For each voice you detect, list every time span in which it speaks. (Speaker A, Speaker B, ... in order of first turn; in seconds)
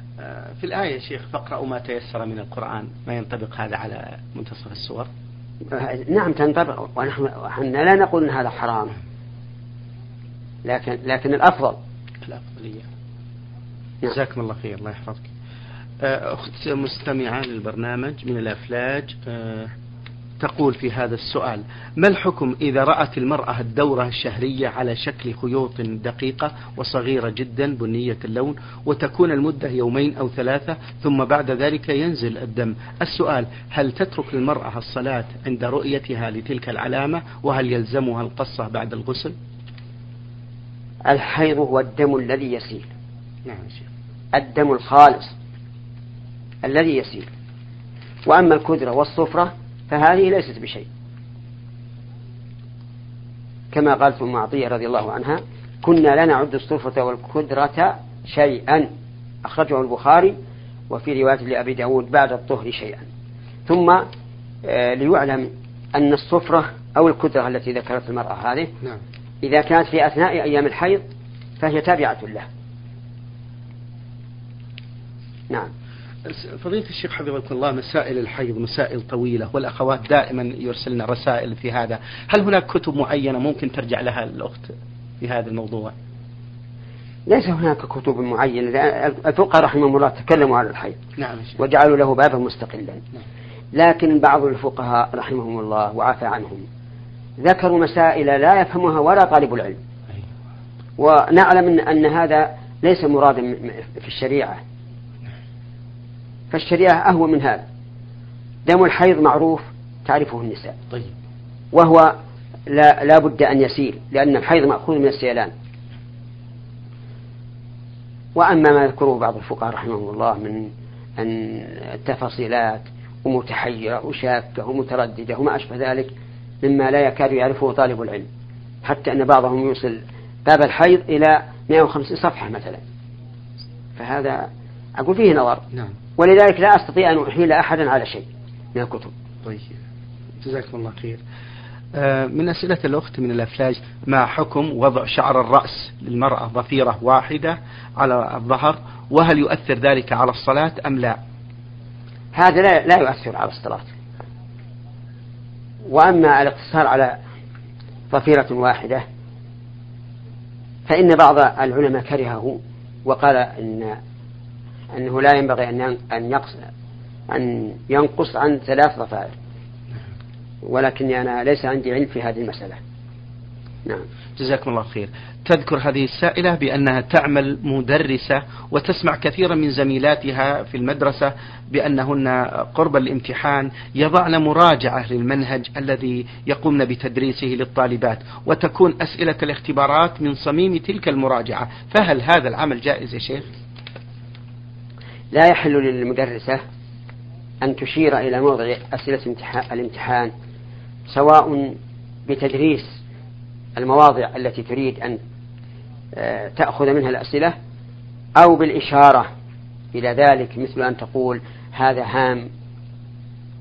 Speaker A: 0.2-5.1, 12.2-12.9, 14.1-15.3, 16.0-19.7, 20.4-39.4, 43.5-43.9, 76.2-85.9, 91.2-91.6, 139.4-139.8, 140.4-141.2, 141.9-151.2, 174.4-193.5
Speaker B: 5.7-9.0, 10.7-11.8, 41.1-42.9, 44.3-45.3, 46.6-47.3, 48.3-50.9, 53.7-58.9, 59.4-60.4, 60.9-63.1, 63.7-64.0, 64.6-68.7, 69.4-71.0, 71.6-72.5, 87.3-91.0, 91.6-93.0, 93.7-96.7, 97.4-99.8, 101.0-104.6, 106.5-107.7, 108.7-110.8, 111.7-112.1, 112.7-115.5, 118.4-126.1, 126.6-128.3, 128.8-132.8, 134.0-135.6, 136.2-139.1, 152.3-153.9, 155.9-157.2, 158.1-159.0, 160.9-164.0, 164.9-166.7, 167.3-169.3, 170.6-172.8, 195.3-196.6, 197.6-200.3, 201.1-203.0, 203.8-205.2, 206.2-207.6, 208.4-209.3, 209.9-212.5